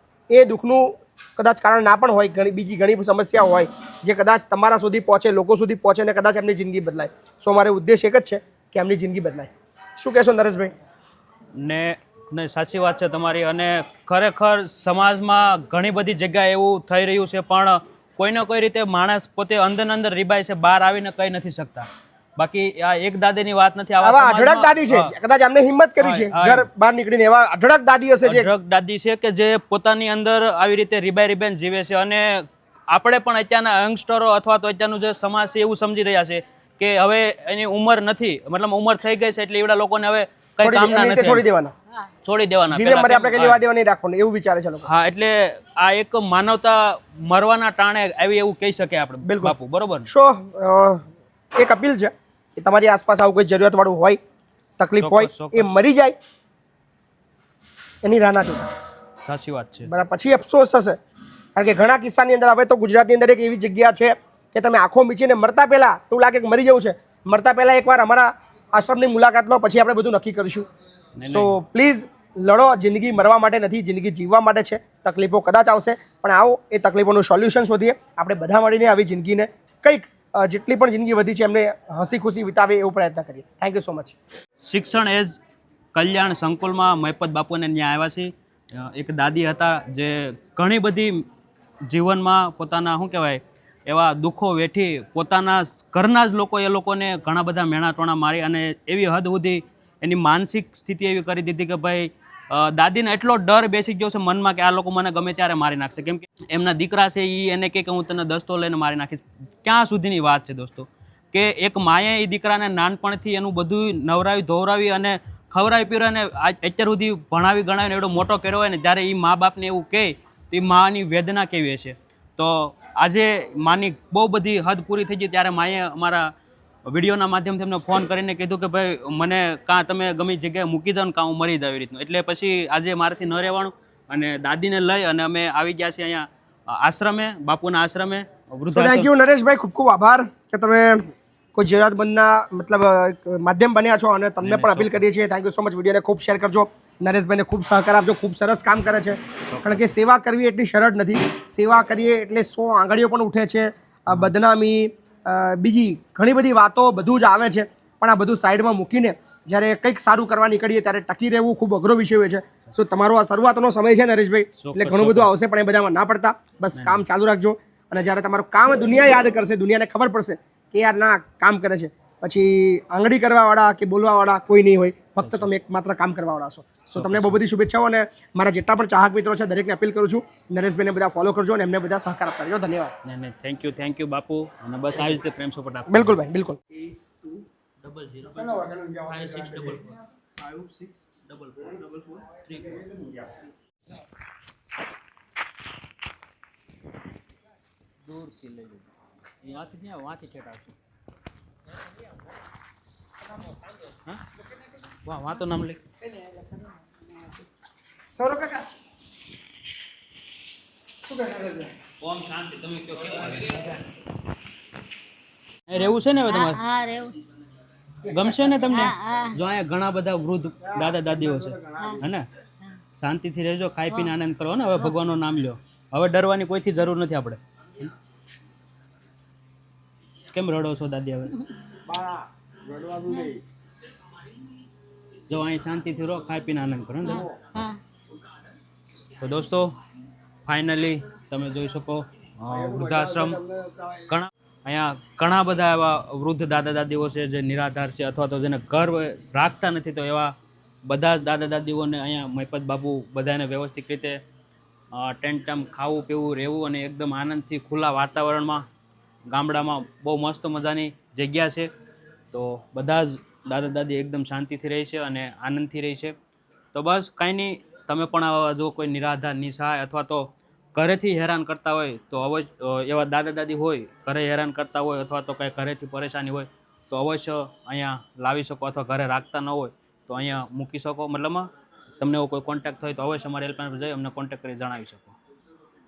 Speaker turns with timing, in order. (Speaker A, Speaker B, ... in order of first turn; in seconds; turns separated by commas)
Speaker A: 0.3-10.7, Speaker B: 11.5-25.1, Speaker A: 24.0-28.5, Speaker B: 26.0-26.7, Speaker B: 28.2-41.4, Speaker A: 40.6-41.7, Speaker B: 42.2-43.6, Speaker A: 42.7-44.9, Speaker B: 44.9-50.1, Speaker A: 49.2-49.5, Speaker A: 50.1-51.0, Speaker A: 51.6-54.2, Speaker A: 54.8-56.1, Speaker B: 55.0-55.7, Speaker A: 58.0-58.7, Speaker B: 59.2-59.9, Speaker A: 59.9-61.0, Speaker A: 61.5-70.6, Speaker B: 71.2-71.6, Speaker A: 71.3-84.1, Speaker B: 84.6-85.3, Speaker B: 85.9-91.2, Speaker B: 91.8-126.3, Speaker B: 126.9-139.1, Speaker A: 138.7-182.9, Speaker B: 144.4-145.0, Speaker B: 149.5-149.9, Speaker B: 164.6-165.3, Speaker B: 166.7-167.0, Speaker B: 175.2-175.5, Speaker B: 176.9-177.4, Speaker B: 183.0-186.2, Speaker A: 185.9-186.6, Speaker B: 187.8-190.0, Speaker A: 188.5-188.9, Speaker A: 190.5-190.8, Speaker B: 191.2-192.9, Speaker B: 198.0-198.9, Speaker B: 199.4-200.8, Speaker B: 205.0-205.8, Speaker A: 206.2-206.6, Speaker A: 208.2-208.6, Speaker A: 211.1-211.6, Speaker B: 212.0-213.8, Speaker B: 215.7-216.6, Speaker C: 215.8-217.2, Speaker B: 218.0-222.3, Speaker C: 218.7-219.4, Speaker C: 221.8-222.0, Speaker B: 223.0-227.9, Speaker B: 230.3-231.3, Speaker A: 231.9-233.3, Speaker C: 233.1-233.4, Speaker B: 235.3-237.3, Speaker C: 237.0-237.8, Speaker B: 239.2-239.8, Speaker B: 240.4-243.4, Speaker B: 244.0-250.3, Speaker B: 250.8-254.2, Speaker B: 254.9-258.6, Speaker B: 259.3-261.7, Speaker B: 262.3-266.1, Speaker B: 266.7-285.2